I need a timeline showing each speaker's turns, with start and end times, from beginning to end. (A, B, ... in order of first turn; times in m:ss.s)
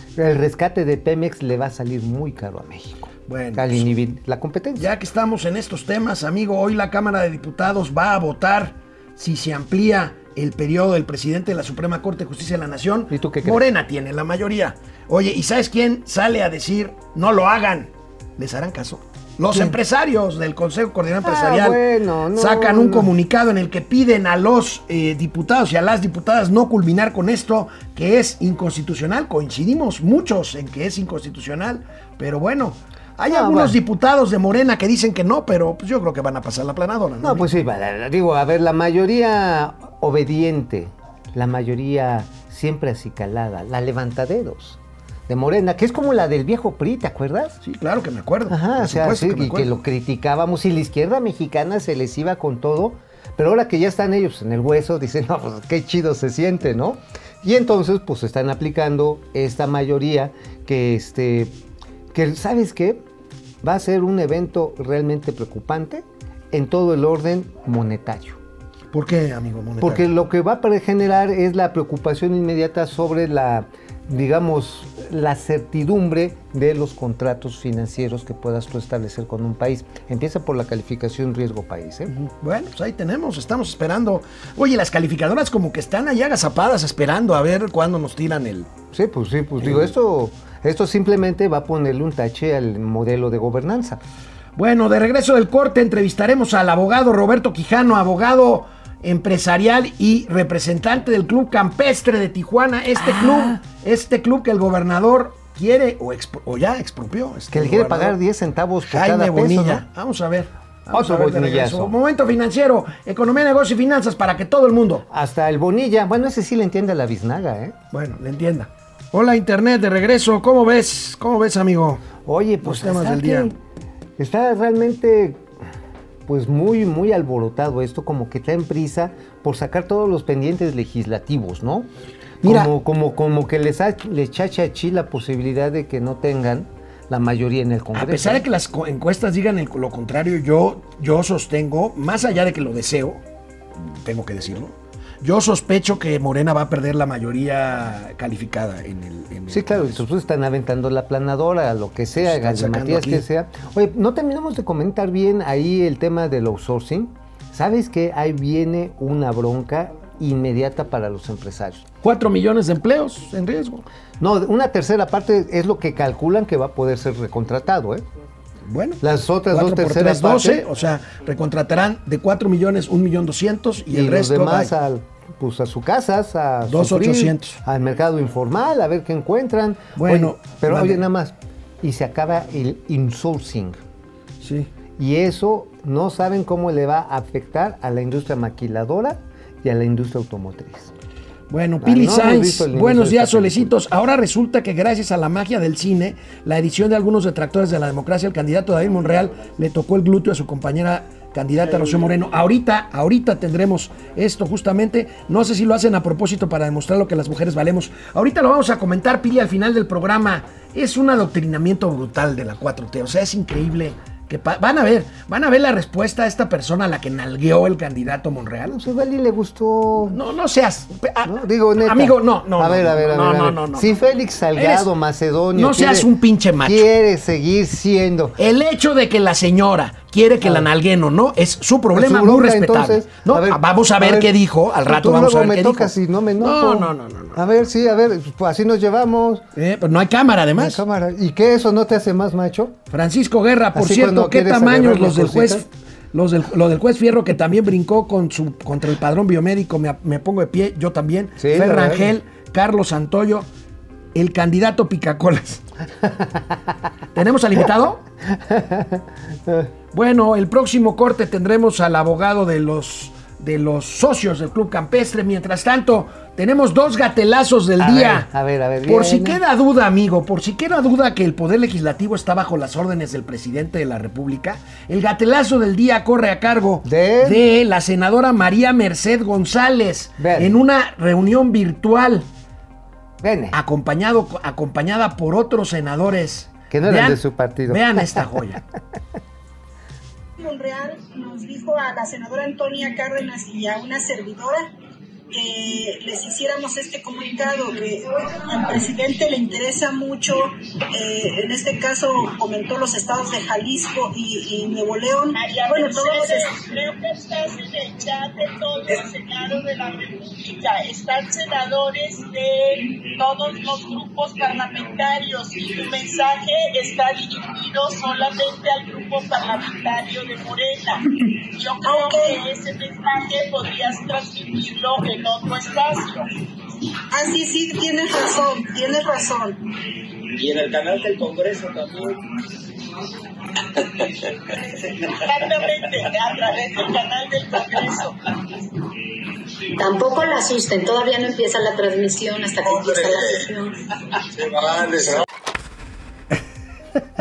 0:00.2-0:04.9 A
0:03.3-0:03.9 B
0:04.7-0:21.8 B
0:13.1-0:13.6 A
0:19.5-0:19.8 A
0:21.2-0:23.1 A
0:22.3-0:37.5 B
0:33.3-0:33.8 A
0:37.2-0:47.6 A
0:47.6-0:49.7 B
0:48.5-1:01.5 A
1:02.1-1:03.0 A
1:03.6-1:08.4 A
1:08.9-1:10.1 B
1:09.8-1:22.1 A
1:22.1-1:28.7 B
1:28.9-1:34.0 A
1:29.6-1:29.9 B
1:34.6-1:48.2 B
1:43.0-1:43.6 A
1:47.5-1:49.8 A
1:48.8-1:55.0 B
1:50.9-1:51.9 A
1:55.1-1:57.8 A
1:57.9-2:02.0 B
2:02.2-2:03.6 A
2:02.6-2:03.5 B
2:04.2-2:05.4 A
2:06.3-2:11.9 A
2:12.4-2:18.4 A
2:12.4-2:12.7 B
2:17.9-2:23.2 B
2:23.7-2:30.0 B
2:29.5-2:41.8 A
2:32.2-2:33.2 B
2:42.0-2:43.8 B
2:44.2-2:48.0 A
2:48.7-2:54.7 B
2:49.0-2:50.6 A
2:53.9-3:03.8 A
2:56.6-2:57.6 B
3:00.0-3:01.0 B
3:04.4-3:04.7 B
3:05.0-3:10.9 A
3:11.5-3:38.8 B
3:11.8-3:13.8 A
3:38.7-3:40.2 A
3:40.1-3:43.9 B
3:41.2-3:46.1 A
3:44.5-3:44.9 B
3:45.5-3:46.9 B
3:46.6-3:48.4 A
3:48.4-3:57.5 B
3:51.9-3:54.3 A
3:54.9-3:59.4 A
3:59.6-4:00.8 B
4:00.6-4:02.8 A
4:02.9-4:13.5 B
4:03.7-4:05.6 A
4:11.4-4:12.1 A
4:14.1-4:15.6 B
4:16.0-4:16.6 A
4:17.1-4:18.0 B
4:18.3-4:19.7 A
4:19.9-4:28.3 B
4:27.8-4:29.4 A
4:28.8-4:42.3 B
4:36.8-4:37.4 A
4:40.2-4:40.6 A
4:43.2-4:43.6 A
4:43.5-4:48.6 B
4:46.7-4:48.3 A
4:50.4-4:54.7 C
4:55.3-5:06.5 C
5:05.3-5:21.0 D
5:21.5-5:26.2 D
5:21.8-5:22.4 C
5:27.1-5:29.6 C
5:30.3-5:32.2 E
5:33.8-5:34.1 E
5:35.2-5:38.2 D
5:39.8-5:43.8 F
5:44.7-5:45.0 F